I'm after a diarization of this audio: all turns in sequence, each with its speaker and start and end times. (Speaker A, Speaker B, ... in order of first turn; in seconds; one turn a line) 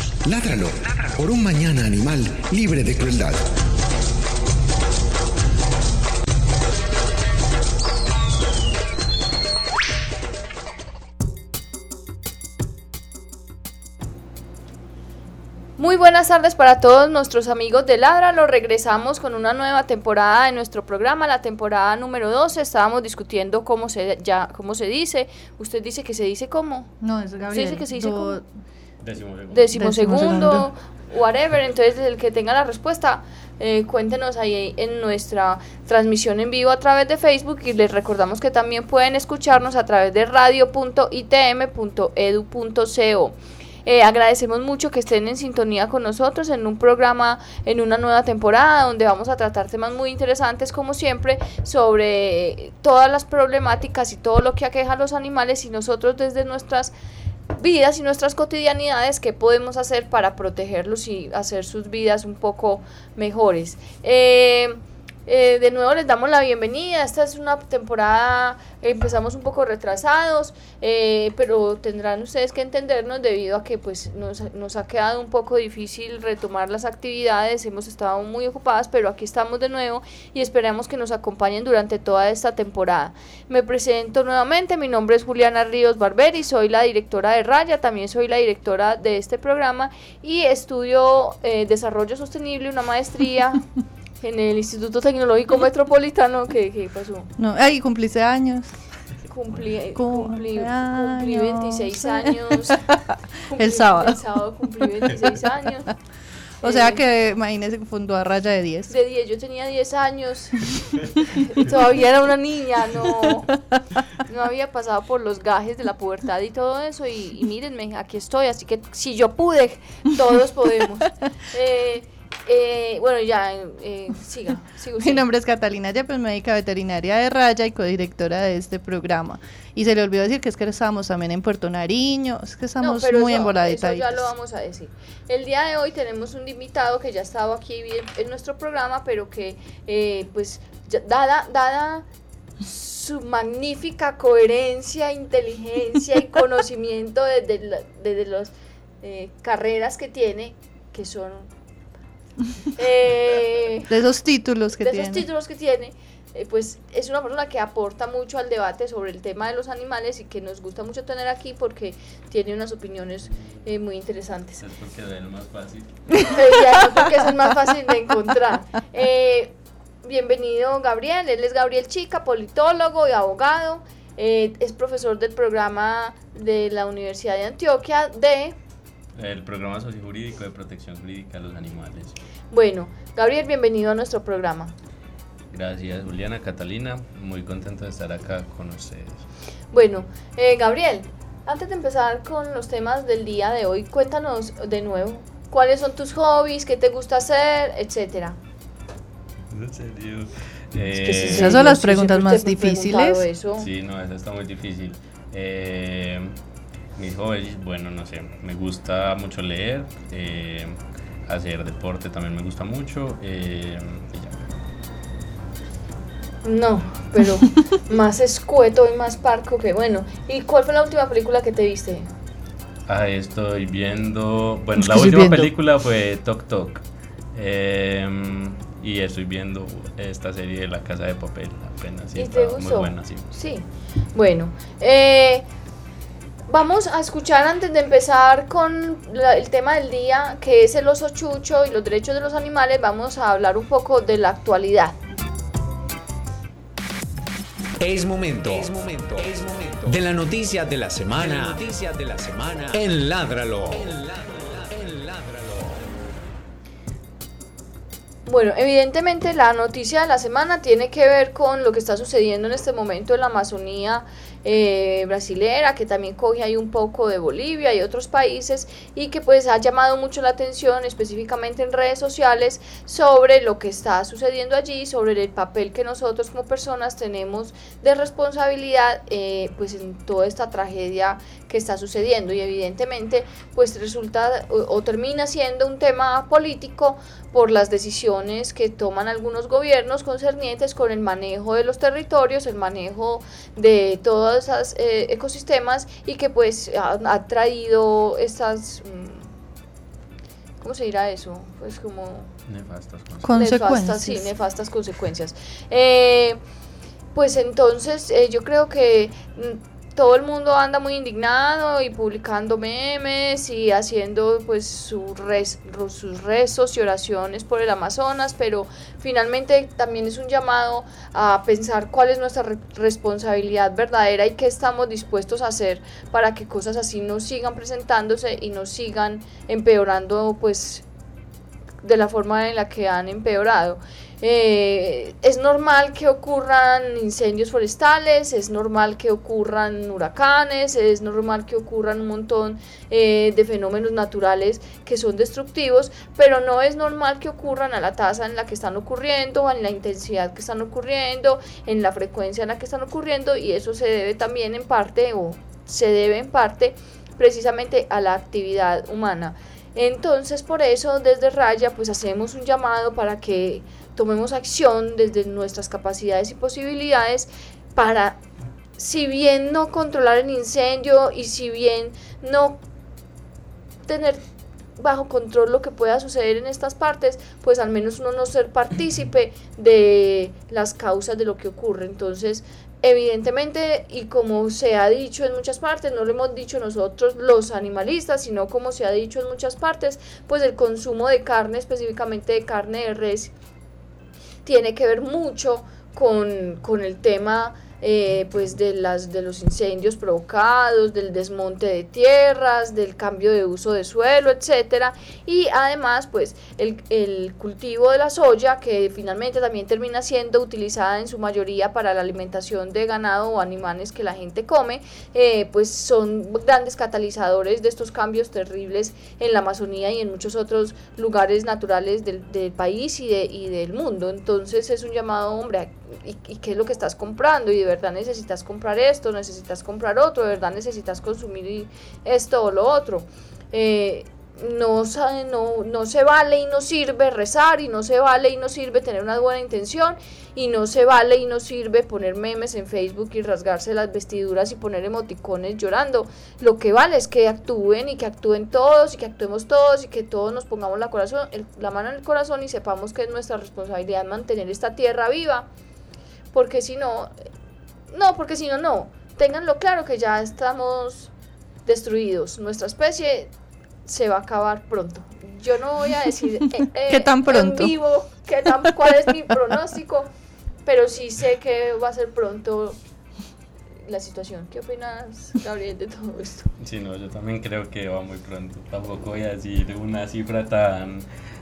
Speaker A: 0.2-3.4
Speaker B: 15.8-26.9
Speaker C: 27.0-28.4
Speaker B: 27.5-28.4
Speaker D: 29.0-29.9
Speaker B: 29.5-56.9
Speaker C: 29.7-30.7
Speaker B: 57.5-93.6
Speaker B: 94.2-97.3
Speaker C: 97.4-98.7
Speaker B: 99.3-102.8
Speaker C: 99.9-104.2
Speaker B: 103.5-105.9
Speaker C: 105.0-105.3
Speaker B: 106.6-107.0
Speaker C: 106.6-108.9
Speaker B: 108.9-113.5
Speaker B: 114.1-125.2
Speaker C: 125.0-134.1
Speaker B: 132.8-142.1
Speaker B: 142.6-151.5
Speaker B: 152.7-153.9
Speaker C: 153.9-155.2
Speaker B: 154.8-164.6
Speaker D: 164.6-165.9
Speaker B: 166.2-178.6
Speaker D: 179.2-182.2
Speaker B: 182.5-184.7
Speaker D: 185.5-189.2
Speaker B: 189.7-198.4
Speaker D: 199.5-201.7
Speaker B: 200.9-203.7
Speaker C: 201.2-203.3
Speaker D: 203.6-206.4
Speaker D: 206.9-214.5
Speaker B: 216.4-222.1
Speaker D: 222.9-226.8
Speaker C: 224.8-225.5
Speaker D: 227.3-233.3
Speaker B: 232.2-235.4
Speaker B: 236.5-245.0
Speaker E: 247.8-255.8
Speaker B: 258.2-299.3
Speaker B: 300.6-302.3
Speaker D: 302.5-303.4
Speaker C: 303.2-304.3
Speaker B: 303.4-306.4
Speaker B: 307.1-330.8
Speaker B: 331.8-368.2
Speaker B: 368.8-372.6
Speaker B: 373.9-374.2
Speaker B: 374.8-393.3
Speaker B: 394.4-455.5
Speaker B: 456.3-457.1
Speaker B: 457.9-461.1
Speaker B: 461.6-463.3
Speaker B: 463.9-470.1
Speaker C: 466.9-467.8
Speaker B: 470.6-472.8
Speaker B: 473.9-476.5
Speaker D: 476.6-481.1